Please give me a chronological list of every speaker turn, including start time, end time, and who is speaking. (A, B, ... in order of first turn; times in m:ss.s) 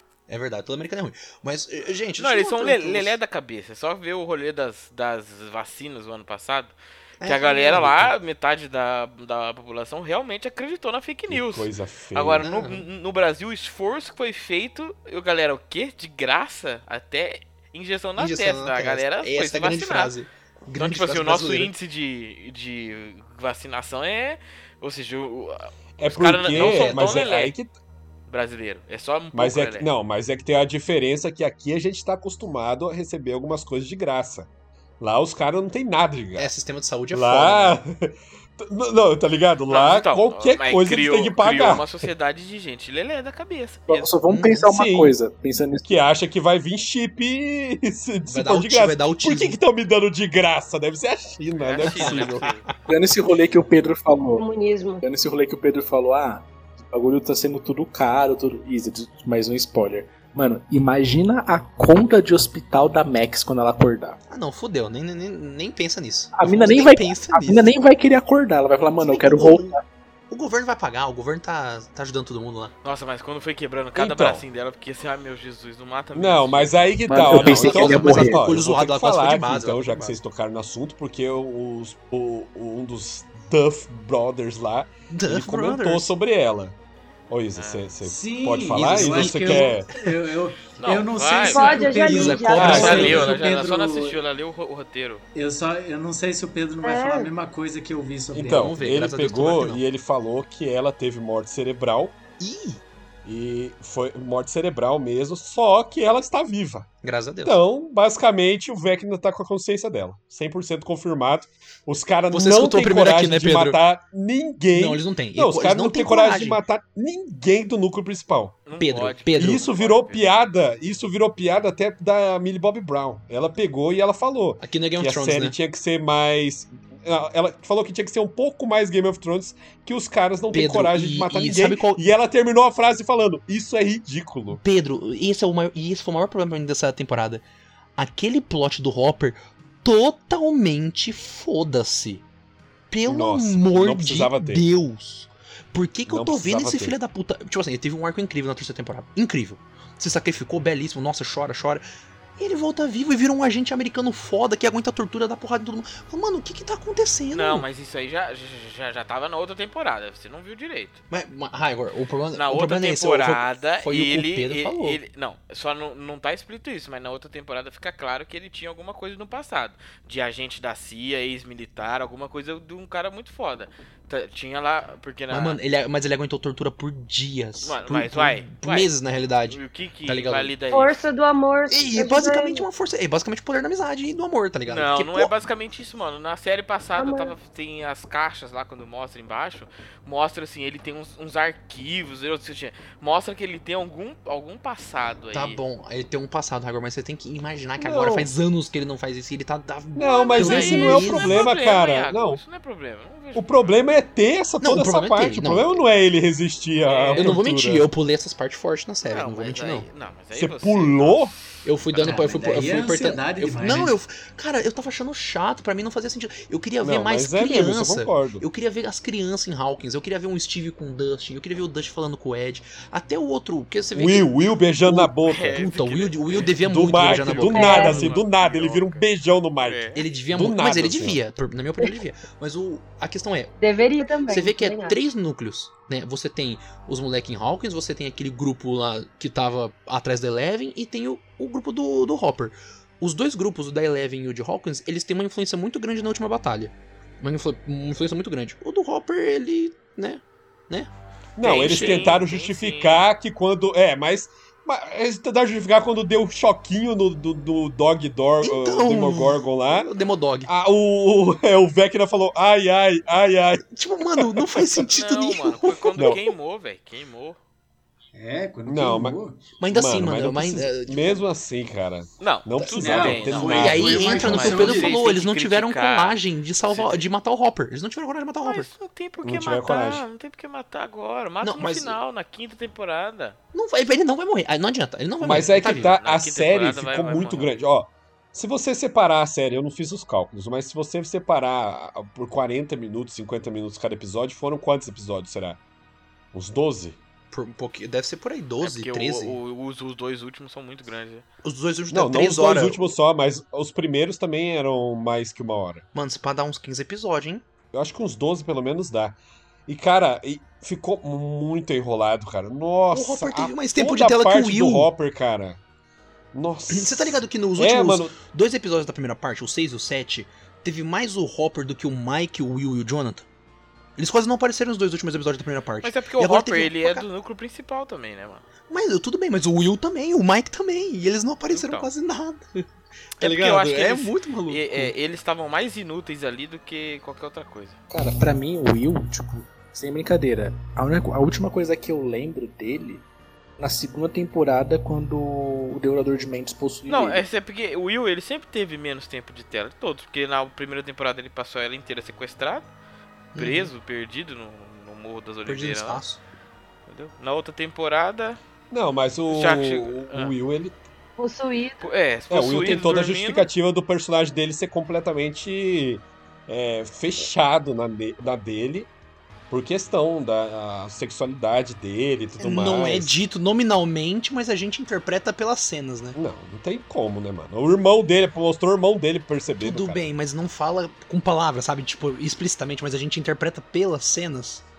0:00.3-0:03.2 A
0:02.2-0:20.1 B
0:07.2-0:08.1 A
0:11.3-0:12.5 C
0:12.4-0:12.8 A
0:18.2-0:21.7 A
0:20.8-0:27.5 B
0:26.0-0:27.7 C
0:26.5-0:27.3 A
0:28.3-0:29.9 B
0:29.3-0:34.5 C
0:35.0-0:36.5 C
0:36.4-0:37.8 A
0:37.1-0:42.1 C
0:39.7-0:44.1 B
0:43.9-0:46.0 D
0:44.3-0:44.7 A
0:44.7-0:45.2 C
0:45.8-0:52.5 C
0:48.3-0:49.6 A
0:51.6-0:52.7 B
0:51.8-0:52.6 A
0:52.9-0:54.5 D
0:54.4-0:55.0 E
0:55.0-1:04.2 D
1:04.3-1:07.8 A
1:06.3-1:09.8 D
1:09.0-1:09.8 A
1:10.3-1:12.7 A
1:12.8-1:16.9 B
1:14.0-1:14.4 C
1:16.1-1:26.8 C
1:17.1-1:18.5 D
1:17.2-1:20.2 A
1:25.1-1:26.1 A
1:27.3-1:29.9 C
1:27.6-1:27.9 B
1:28.0-1:34.2 F
1:28.8-1:29.8 A
1:30.8-1:32.0 B
1:31.5-1:33.2 E
1:32.0-1:33.3 A
1:32.6-1:33.2 C
1:32.6-1:35.2 B
1:35.4-1:38.8 F
1:36.8-1:37.3 E
1:38.3-1:42.2 C
1:38.5-1:39.8 A
1:42.4-1:42.8 A
1:43.2-1:46.9 C
1:47.0-1:47.6 A
1:47.4-1:58.6 C
1:52.3-1:53.8 A
1:54.7-1:56.6 A
1:58.7-2:00.3 B
1:58.8-1:59.6 A
1:59.4-2:14.6 C
2:04.6-2:05.6 A
2:10.5-2:12.0 A
2:14.5-2:17.4 A
2:18.0-2:22.2 A
2:22.9-2:31.8 A
2:23.1-2:24.7 C
2:26.1-2:27.0 C
2:32.4-2:37.7 A
2:37.3-2:41.0 B
2:41.1-2:45.0 A
2:42.3-2:55.6 B
2:55.3-3:00.5 A
2:57.6-2:58.9 B
2:59.5-3:01.0 B
3:00.7-3:02.7 E
3:01.7-3:05.3 A
3:04.7-3:15.6 B
3:07.0-3:07.4 E
3:15.3-3:21.5 A
3:17.8-3:18.3 C
3:20.0-3:22.4 C
3:20.2-3:23.8 B
3:23.4-3:27.9 C
3:24.6-3:25.8 A
3:26.8-3:27.4 B
3:27.2-3:29.9 A
3:29.0-3:31.3 B
3:30.3-3:31.3 C
3:31.6-3:44.3 A
3:31.9-3:32.4 B
3:32.0-3:34.0 F
3:36.8-3:38.4 C
3:44.0-3:45.6 C
3:44.8-3:48.0 A
3:45.3-3:49.1 B
3:46.6-3:51.2 C
3:47.5-3:48.1 E
3:49.6-3:50.1 B
3:50.0-3:53.6 A
3:53.6-3:55.0 E
3:54.3-4:10.9 A
4:11.4-4:19.9 C
4:11.4-4:12.2 A
4:11.4-4:13.0 B
4:18.4-4:20.5 A
4:20.5-4:23.6 C
4:23.8-4:26.2 A
4:24.2-4:24.8 C
4:24.9-4:27.4 B
4:28.1-4:29.5 F
4:28.7-4:34.6 C
4:29.6-4:31.2 A
4:32.2-4:37.1 B
4:32.7-4:35.0 F
4:33.1-4:38.7 A
4:38.4-4:43.4 B
4:39.2-4:40.1 C
4:41.4-4:42.0 A
4:43.5-4:45.9 A
4:45.2-4:55.6 C
4:45.6-4:47.5 B
4:56.3-4:57.0 C
4:57.3-4:59.4 A
4:58.6-5:01.2 B
5:01.4-5:02.8 A
5:01.9-5:05.8 C
5:05.9-5:07.4 A
5:07.7-5:15.6 C
5:12.9-5:14.9 A
5:16.3-5:18.2 C
5:16.7-5:23.3 A
5:24.0-5:27.1 A
5:25.8-5:28.4 B
5:28.7-5:32.6 A
5:31.5-5:31.9 B
5:33.2-5:34.9 A
5:33.2-5:37.8 B
5:37.9-5:43.0 D
5:43.6-5:47.2 D
5:46.9-5:52.7 B
5:53.4-5:53.7 A
5:53.4-5:56.0 B
5:55.5-5:56.2 A
5:56.9-5:58.4 B
5:58.7-6:00.8 C
5:59.3-6:00.3 B
6:01.2-6:01.8 E
6:01.8-6:03.5 B
6:02.3-6:08.9 C
6:09.5-6:13.2 C
6:12.4-6:16.2 A
6:16.2-6:20.1 C
6:19.6-6:24.6 A